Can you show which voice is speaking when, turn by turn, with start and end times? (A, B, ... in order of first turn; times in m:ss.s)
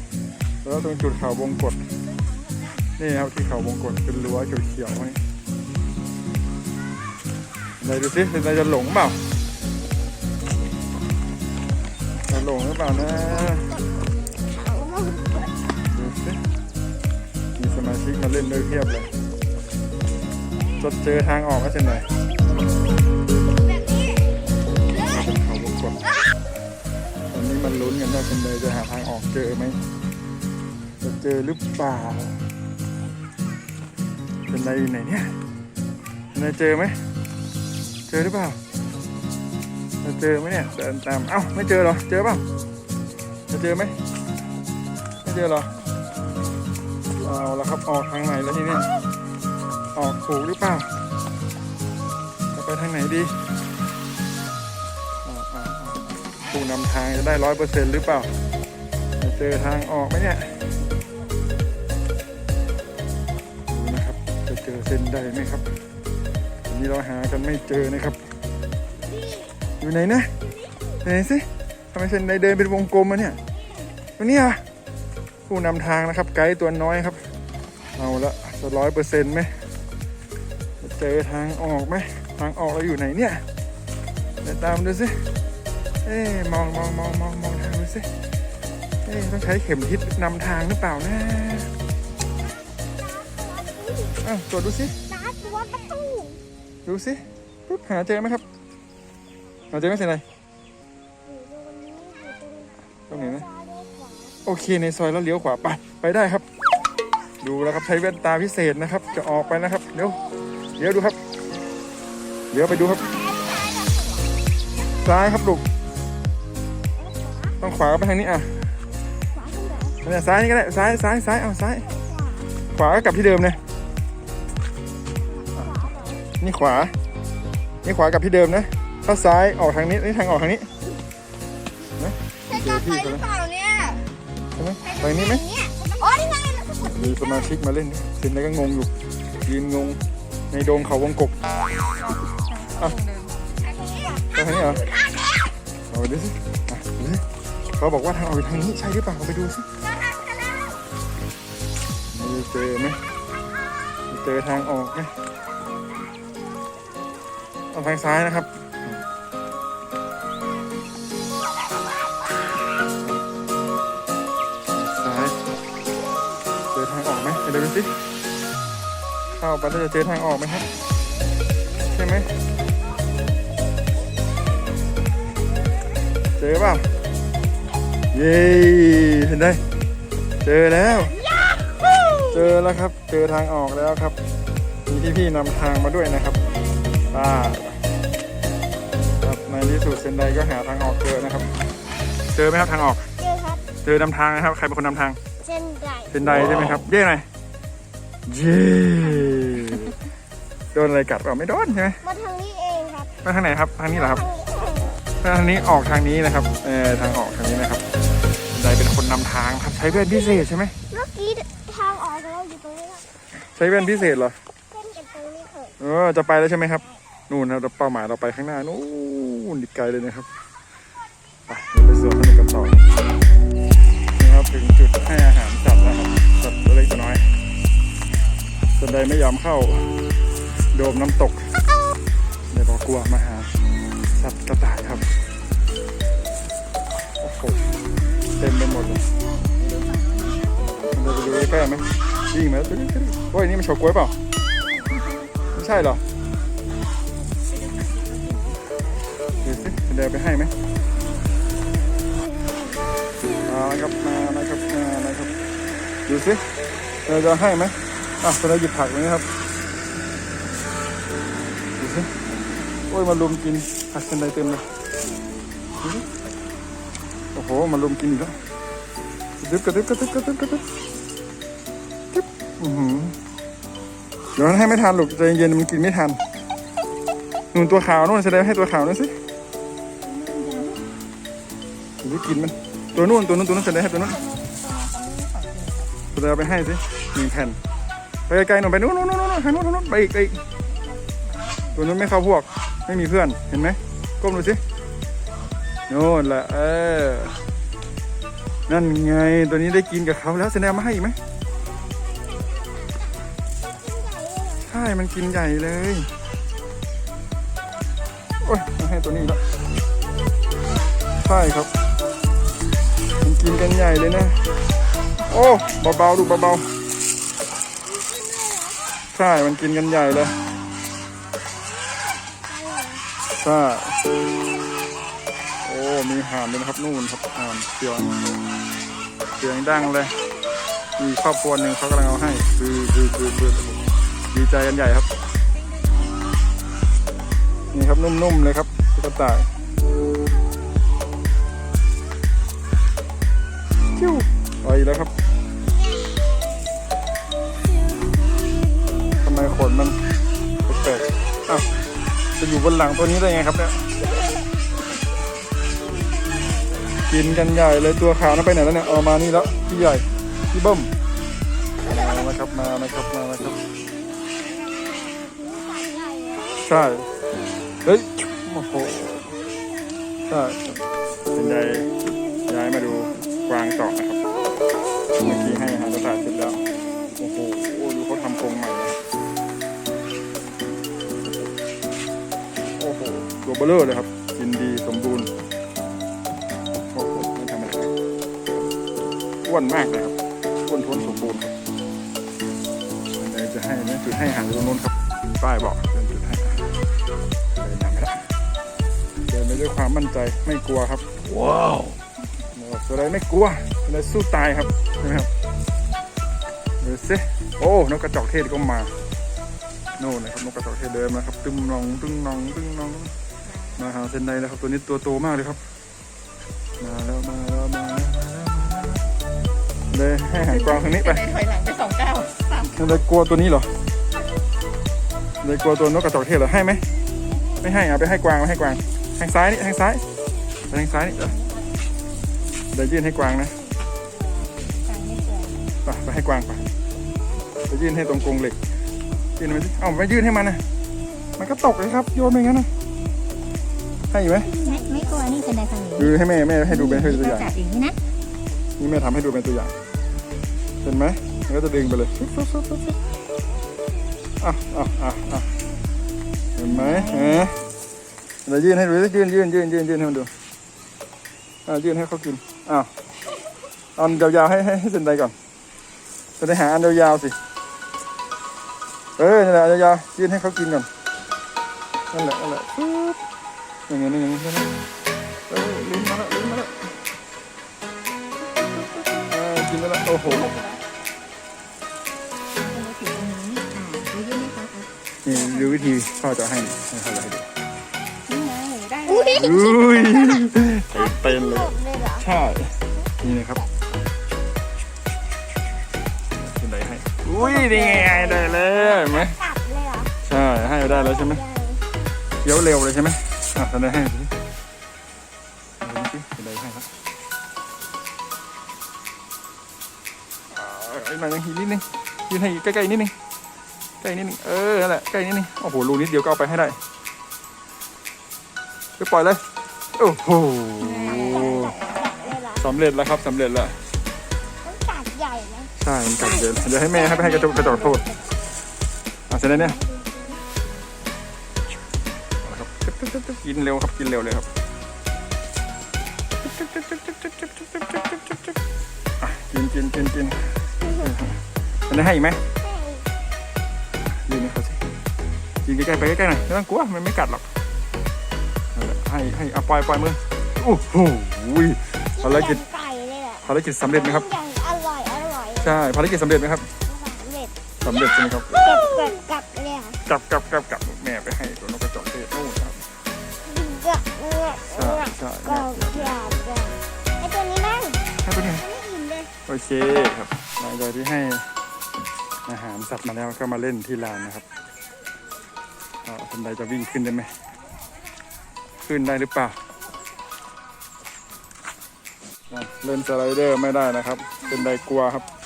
0:00.6-0:01.8 A
0:03.0-0:05.2 A
0:07.8-0:09.2 A
0:12.3-0:13.8 A
0:14.4-0:15.6 B
0:15.9-0:16.4 A
0:17.6-0:19.1 A
0:20.8-0:22.1 A
0:23.7-0:24.4 B
0:24.9-0:26.0 A
0:27.3-0:29.8 A
0:31.0-0:32.4 A
0:34.5-0:35.3 A
0:36.3-0:37.0 A
0:38.1-0:38.6 A
0:40.0-0:42.4 A
0:43.5-0:44.0 A
0:45.2-0:45.7 A
0:47.2-0:48.9 A
0:49.9-0:50.9 A
0:52.5-0:53.5 A
0:55.2-0:58.3 A
0:59.2-1:00.6 A
1:03.7-1:05.6 A
1:06.7-1:08.2 A
1:09.8-1:10.3 A
1:11.0-1:13.4 A
1:14.2-1:14.6 A
1:15.5-1:17.2 A
1:18.0-1:19.6 A
1:20.8-1:23.4 A
1:24.4-1:25.2 A
1:26.0-1:28.1 A
1:29.0-1:31.7 A
1:33.0-1:34.2 B
1:34.2-1:35.0 A
1:35.1-1:36.4 B
1:36.8-1:38.4 A
1:39.7-1:40.2 A
1:41.2-1:42.9 B
1:43.1-1:43.5 A
1:43.4-1:44.4 B
1:44.4-1:46.4 A
1:47.4-1:50.2 A
1:50.8-1:51.2 A
1:52.5-1:53.0 A
1:53.1-1:54.3 B
1:55.0-1:55.6 A
1:57.0-1:57.5 B
1:57.6-1:58.5 A
1:59.3-2:00.0 B
2:00.0-2:01.9 A
2:01.9-2:02.5 B
2:02.7-2:03.6 A
2:05.4-2:06.2 B
2:05.6-2:05.9 A
2:06.4-2:06.9 A
2:07.8-2:10.7 A
2:12.0-2:13.3 A
2:12.5-2:14.1 B
2:14.6-2:15.4 A
2:14.8-2:17.2 B
2:16.8-2:18.9 A
2:19.4-2:20.0 A
2:20.5-2:21.4 A
2:21.9-2:23.6 C
2:23.6-2:25.2 B
2:24.3-2:24.9 A
2:25.9-2:29.6 A
2:30.1-2:30.6 B
2:32.1-2:33.0 A
2:34.1-2:35.2 A
2:37.7-2:39.0 A
2:44.7-2:45.4 A
2:46.7-2:48.0 A
2:49.3-2:50.7 A
2:51.9-2:52.3 A
2:56.4-2:56.9 A
2:58.1-2:59.6 A
3:00.4-3:01.1 A
3:01.3-3:02.3 B
3:02.3-3:04.2 A
3:04.9-3:06.4 A
3:07.1-3:07.8 A
3:09.2-3:11.5 A
3:12.3-3:13.1 A
3:13.2-3:13.7 B
3:13.8-3:15.2 A
3:15.4-3:16.2 B
3:16.1-3:17.3 A
3:18.3-3:20.0 A
3:20.7-3:22.0 A
3:22.0-3:23.2 B
3:23.2-3:24.3 A
3:24.1-3:25.0 B
3:25.2-3:27.8 A
3:28.5-3:30.8 A
3:30.9-3:33.1 B
3:33.4-3:34.4 A
3:34.7-3:35.7 B
3:35.8-3:40.3 A
3:41.5-3:42.8 A
3:44.2-3:47.3 A
3:48.7-3:50.0 A
3:50.7-3:51.5 A
3:52.5-3:53.5 A
3:54.1-3:55.1 A
3:57.2-3:57.6 A
3:58.4-3:59.0 A
3:59.6-4:01.0 C
4:00.9-4:04.2 A
4:05.5-4:06.0 A
4:07.9-4:08.5 C
4:09.4-4:10.5 A
4:13.4-4:15.3 A
4:16.0-4:16.5 A
4:17.0-4:19.3 A
4:21.8-4:22.1 A
4:22.9-4:24.7 A
4:27.3-4:28.4 A
4:29.4-4:30.7 A
4:32.1-4:33.2 A
4:34.4-4:36.2 A
4:37.5-4:39.2 A
4:40.0-4:40.9 C
4:42.0-4:44.2 A
4:43.8-4:46.0 C
4:46.1-4:47.6 A
4:48.3-4:50.4 A
4:51.2-4:51.6 C
4:51.7-4:54.6 A
4:55.9-4:57.4 A
4:58.7-5:01.2 A
5:01.9-5:04.7 B
5:04.6-5:06.1 A
5:08.4-5:09.4 A
5:11.2-5:11.7 A
5:13.2-5:14.4 A
5:15.2-5:16.7 A
5:17.9-5:18.8 B
5:19.1-5:20.4 A
5:22.1-5:23.0 B
5:23.3-5:24.0 A
5:25.6-5:28.1 A
5:29.4-5:30.2 A
5:31.0-5:33.8 A
5:34.3-5:35.1 A
5:37.7-5:39.5 A
5:43.9-5:45.1 A
5:49.1-5:50.0 A
5:50.6-5:51.7 A
5:52.4-5:53.8 A
5:55.9-5:56.9 B
5:57.0-6:00.9 A
6:01.8-6:03.6 A
6:04.4-6:06.6 B
6:06.6-6:07.1 A
6:07.8-6:09.4 A
6:10.3-6:10.8 A
6:11.3-6:11.9 A
6:12.5-6:14.2 A
6:15.2-6:16.6 A
6:17.2-6:19.0 A
6:22.7-6:25.3 A
6:26.9-6:27.9 A
6:29.4-6:31.5 A
6:33.1-6:36.7 A
6:37.5-6:38.3 A
6:39.3-6:41.0 A
6:42.5-6:45.3 A
6:46.8-6:48.9 A
6:50.0-6:53.1 A
6:53.7-6:55.6 A
6:56.8-6:59.0 A
6:59.9-7:01.3 A
7:00.6-7:02.8 C
7:02.6-7:03.7 A
7:05.4-7:06.8 A
7:07.6-7:10.0 A
7:10.7-7:11.4 A
7:12.7-7:13.6 A
7:14.8-7:15.6 C
7:15.8-7:16.7 A
7:17.7-7:18.6 A
7:19.4-7:20.6 A
7:21.4-7:22.7 A
7:24.1-7:24.5 A
7:24.4-7:26.1 C
7:24.6-7:25.1 B
7:25.9-7:27.5 A
7:26.7-7:28.0 C
7:28.8-7:29.7 A
7:30.8-7:33.0 A
7:34.4-7:35.5 A
7:36.6-7:37.6 A
7:38.4-7:40.3 A
7:41.6-7:42.9 A
7:44.0-7:45.3 A
7:46.4-7:47.4 A
7:49.2-7:50.9 A
7:52.1-7:53.2 A
7:53.9-7:54.7 A
7:55.5-7:56.9 A
7:59.2-8:00.5 A
8:00.3-8:00.8 C
8:02.5-8:05.8 C
8:05.2-8:07.5 A
8:08.3-8:09.6 C
8:09.1-8:12.3 B
8:09.3-8:13.6 A
8:16.3-8:19.4 A
8:17.4-8:20.1 B
8:20.2-8:21.4 A
8:20.6-8:21.8 B
8:22.4-8:24.3 A
8:25.8-8:26.9 A
8:30.5-8:33.1 A
8:34.0-8:36.8 A
8:39.0-8:39.4 A
8:40.0-8:41.8 A
8:40.8-8:42.2 C
8:41.3-8:42.6 B
8:42.5-8:43.8 A
8:44.6-8:45.7 B
8:45.8-8:48.0 A
8:46.2-8:48.3 B
8:49.3-8:49.8 A
8:49.5-8:50.4 B
8:52.4-8:54.5 A
8:56.4-8:58.5 A
8:59.2-9:02.4 A
9:02.6-9:03.1 B
9:04.0-9:04.8 A
9:05.6-9:07.4 A
9:08.7-9:12.6 A
9:12.2-9:15.8 B
9:13.4-9:14.3 A
9:15.6-9:16.7 A
9:16.8-9:17.5 B
9:17.8-9:19.1 A
9:18.6-9:20.0 B
9:20.0-9:22.8 A
9:23.4-9:28.0 B
9:24.7-9:26.2 A
9:28.2-9:28.7 A
9:28.6-9:29.3 B
9:29.4-9:31.5 A
9:32.4-9:34.4 A
9:36.0-9:37.3 A
9:38.8-9:39.6 A
9:42.5-9:45.2 A